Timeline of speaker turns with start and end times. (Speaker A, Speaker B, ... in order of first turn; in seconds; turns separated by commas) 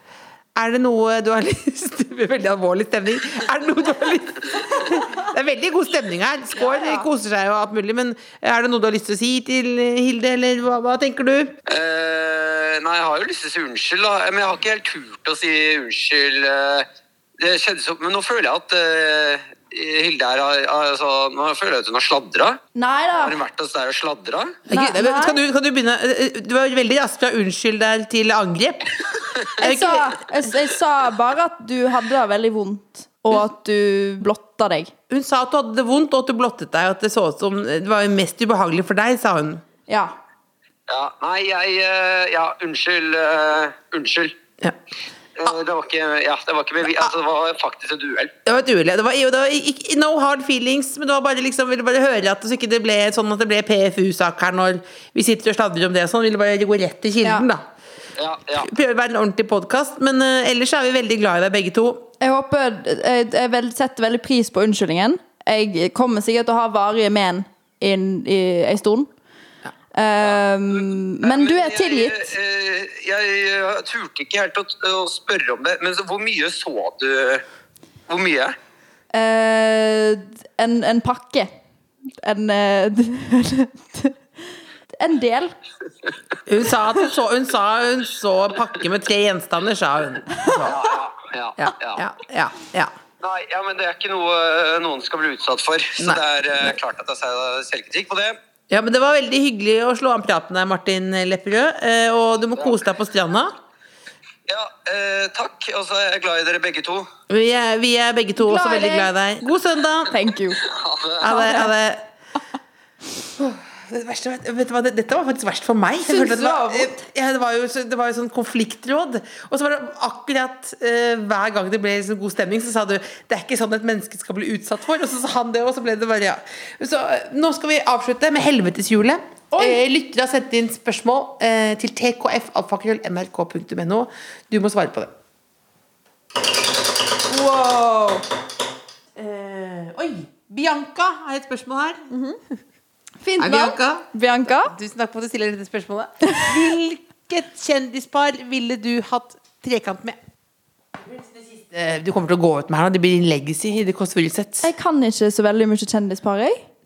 Speaker A: 0.5-11.6, Speaker B: 6.6-7.0, Speaker C: 11.7-16.9, Speaker C: 17.4-22.6, Speaker B: 22.7-23.4, Speaker C: 23.2-24.6, Speaker B: 24.7-25.4, Speaker A: 24.7-30.5, Speaker B: 29.6-34.9, Speaker A: 35.1-39.6, Speaker B: 39.9-40.1, Speaker C: 40.9-44.4, Speaker C: 45.4-48.3, Speaker A: 48.5-57.6, Speaker C: 58.2-58.7, Speaker A: 58.5-62.1, Speaker B: 62.2-69.1, Speaker B: 69.9-72.3, Speaker C: 71.2-77.4, Speaker C: 78.1-78.5, Speaker B: 79.1-81.5, Speaker B: 82.2-85.5, Speaker A: 86.5-90.8, Speaker C: 90.6-92.0, Speaker A: 91.6-92.9, Speaker C: 93.2-98.4, Speaker A: 96.0-96.8, Speaker A: 98.7-103.5, Speaker C: 104.5-107.1, Speaker A: 107.3-110.2, Speaker B: 108.4-109.1, Speaker B: 110.1-110.6, Speaker C: 110.6-111.3, Speaker A: 111.2-112.1, Speaker B: 111.3-111.7, Speaker A: 113.3-135.1, Speaker B: 116.0-117.0, Speaker B: 129.5-129.8, Speaker B: 137.3-138.2, Speaker A: 139.2-142.1, Speaker B: 142.1-142.4, Speaker B: 143.2-144.7, Speaker A: 143.4-150.2, Speaker A: 150.9-154.7, Speaker B: 154.6-156.7